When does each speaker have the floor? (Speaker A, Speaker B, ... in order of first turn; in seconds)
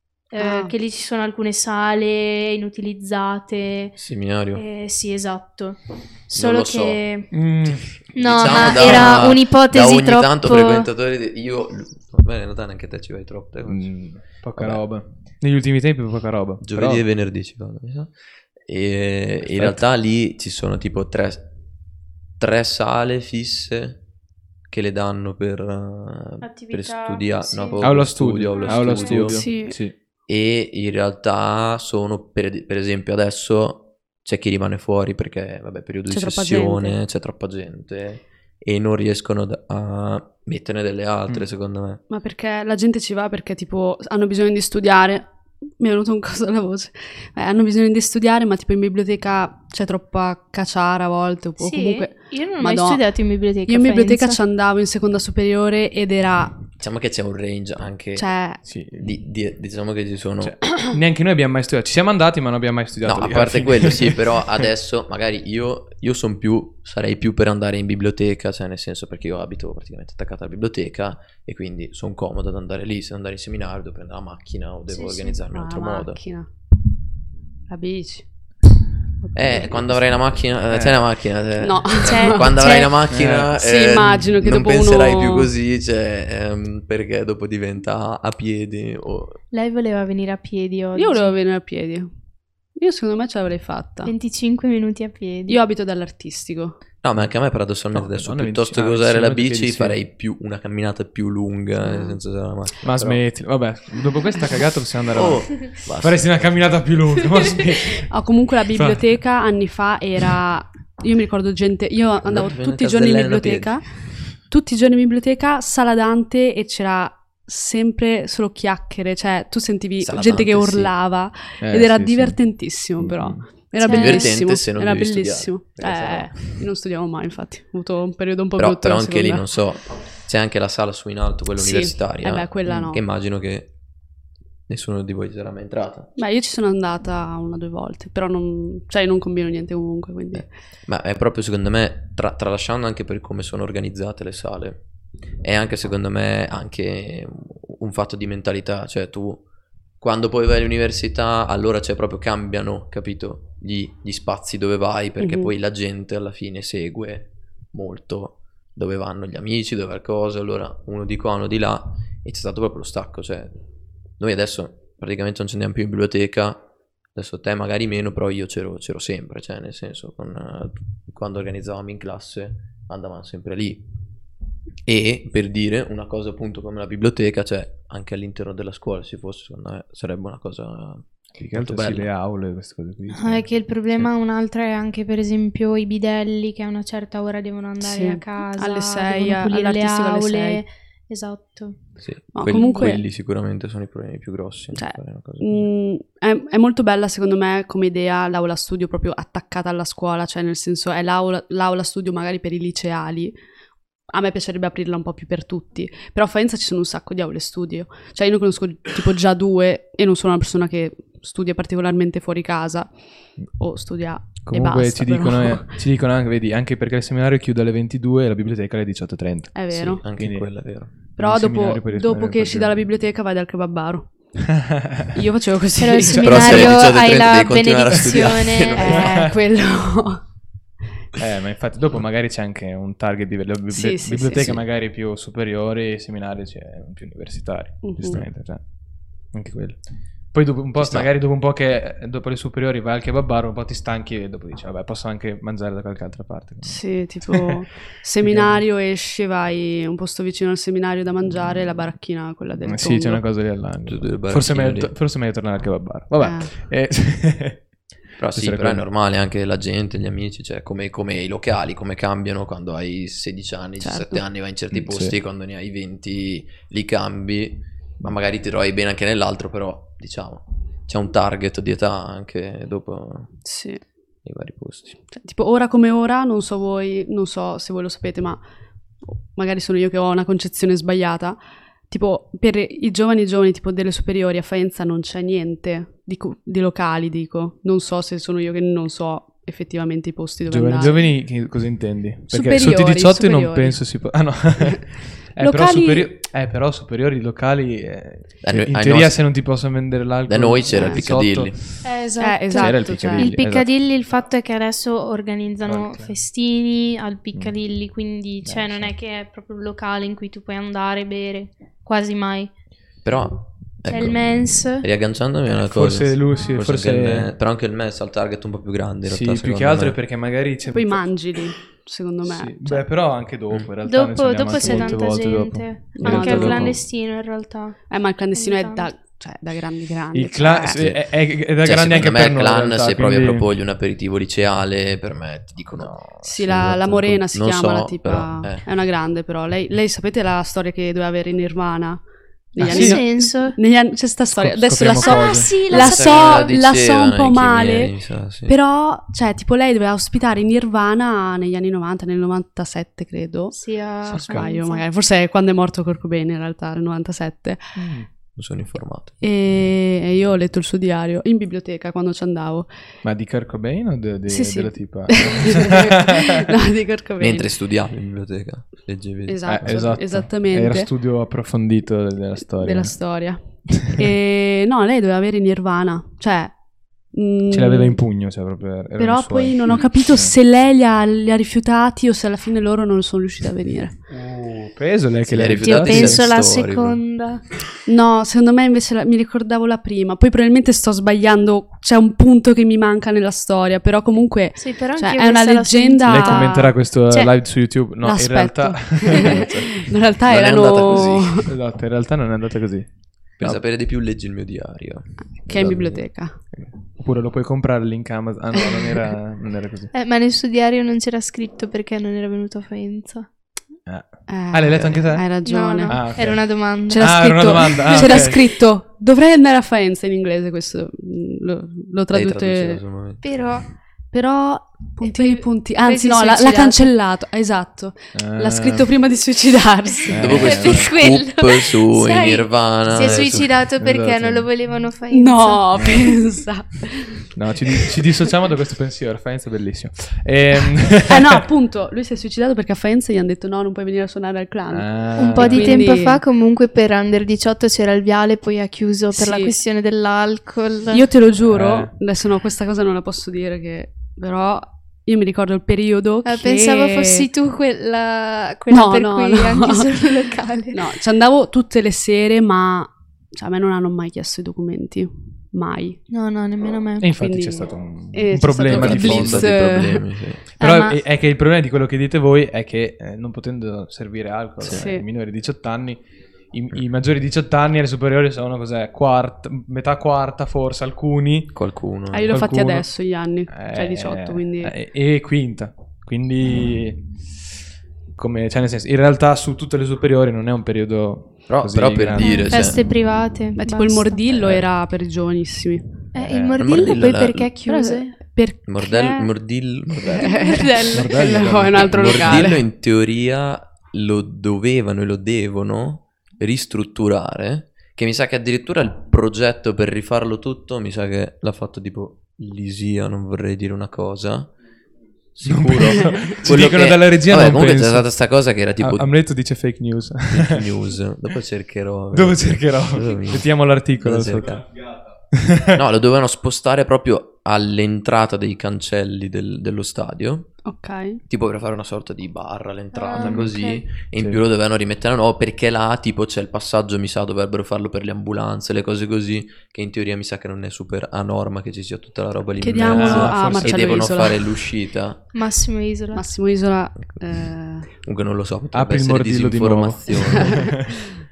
Speaker A: 0.3-4.0, 4.5-7.3, 8.1-10.9, 26.4-27.8, 28.5-29.2, 51.6-54.4, 74.9-75.4, 82.0-83.0, 89.5-91.3, 94.0-95.6, 123.8-124.3, 183.1-191.8, 225.8-229.0, 301.8-312.5, 313.8-314.9, 323.8-327.8, 328.3-328.9, 342.6-343.6, 344.9-346.5, 353.5-354.8, 385.6-387.4, 394.6-397.3, 409.9-413.3, 415.4-417.3, 423.2-423.7, 425.0-426.9, 430.2-436.2, 445.1-451.1, 456.2-460.8, 466.1-467.1, 470.6-471.0, 492.2-494.2, 496.1-498.1, 500.2-501.1, 532.9-533.8, 545.3-546.3
Speaker B: 0.4-0.7, 29.3-29.8, 36.1-37.0, 42.1-53.0, 53.7-56.6, 58.1-58.6, 75.5-76.5, 77.7-78.3, 79.2-80.2, 81.6-82.8, 83.5-85.5, 91.0-92.1, 92.8-94.1, 95.5-96.8, 101.8-102.2, 108.1-113.8, 114.5-129.4, 131.6-133.0, 136.2-140.5, 155.2-155.5, 187.8-190.6, 192.3-193.0, 194.7-203.4, 204.1-215.8, 219.5-220.0, 221.2-224.3, 225.1-226.8, 228.7-230.2, 233.7-234.6, 237.8-238.2, 246.6-253.2, 256.2-256.5, 263.8-264.2, 273.4-273.8, 275.1-278.4, 279.0-291.0, 292.3-293.8, 295.4-296.1, 300.7-301.1, 302.2-303.3, 320.7-322.8, 324.6-324.9, 325.9-326.7, 327.9-330.9, 336.2-347.9, 348.4-357.7, 359.2-362.7, 364.3-367.5, 369.2-370.9, 372.6-376.5, 377.1-378.0, 379.0-383.9, 387.9-396.8, 398.0-401.5, 405.4-406.4, 414.3-416.1, 416.9-422.8, 424.1-430.5, 435.1-438.0, 441.1-446.2, 449.1-449.5, 450.9-457.3, 458.7-459.9, 460.7-466.0, 467.2-470.1, 474.7-475.0, 482.1-484.7, 493.5-495.9, 497.6-499.3, 500.1-502.6, 530.6-531.2, 542.6-544.7, 546.1-547.9
Speaker C: 4.0-4.6, 6.3-7.0, 7.7-14.0, 14.6-14.8, 16.6-21.5, 22.4-24.0, 24.7-29.4, 30.3-42.0, 56.8-58.3, 59.0-60.5, 63.0-76.2, 79.3-89.4, 97.0-103.2, 105.1-106.2, 112.2-113.8, 120.0-120.9, 123.9-126.6, 128.6-133.7, 134.7-136.1, 140.3-144.8, 145.4-149.4, 150.0-163.5, 164.2-173.8, 174.8-182.1, 192.0-195.7, 219.7-220.9, 226.2-229.0, 234.3-234.6, 240.8-241.1, 253.8-254.9, 258.2-273.4, 274.2-275.0, 298.4-299.2, 300.3-301.6, 313.0-320.0, 330.7-331.0, 331.6-338.7, 345.7-348.6, 358.3-359.2, 367.2-369.9, 385.3-387.0, 400.2-401.4, 403.4-406.0, 422.1-423.2, 430.1-433.5, 468.6-470.4, 474.6-474.9, 481.5-482.4, 491.5-492.8, 496.6-497.5, 498.6-500.4, 501.7-514.5, 515.3-519.1, 520.3-523.5, 524.0-524.6, 525.7-530.5, 531.3-545.3, 548.0-550.9
Speaker D: 7.3-7.9, 8.5-9.1, 13.7-17.0, 19.4-19.8, 27.8-29.9, 58.6-59.1, 60.4-64.4, 80.7-81.0, 83.1-84.3, 97.9-100.0, 102.8-108.1, 108.7-109.0, 121.6-123.4, 181.4-184.1, 214.4-222.8, 224.6-225.1, 226.3-226.7, 228.9-229.3, 231.2-247.6, 248.2-248.6, 252.6-258.8, 264.7-265.1, 290.5-301.9, 302.6-303.7, 305.6-306.1, 308.4-308.9, 315.5-317.3, 319.0-321.2, 322.2-326.8, 330.1-333.5, 342.6-343.0, 344.3-345.5, 354.1-354.4, 357.8-358.1, 363.0-366.4, 369.5-373.1, 373.8-374.0, 377.5-380.3, 384.1-386.3, 396.1-399.8, 401.4-403.6, 405.6-409.9, 413.9-415.3, 415.8-418.4, 428.1-428.9, 430.1-430.9, 433.3-434.7, 435.7-436.1, 437.3-441.4, 444.7-445.9, 451.4-451.9, 467.0-469.6, 470.6-481.5, 482.3-482.9, 483.5-487.2, 488.1-492.5, 494.3-494.6, 496.2-496.9, 500.9-502.5, 515.4-518.2, 518.8-520.9, 522.1-525.8, 533.1-533.5, 534.1-534.4, 542.8-544.3, 548.7-550.9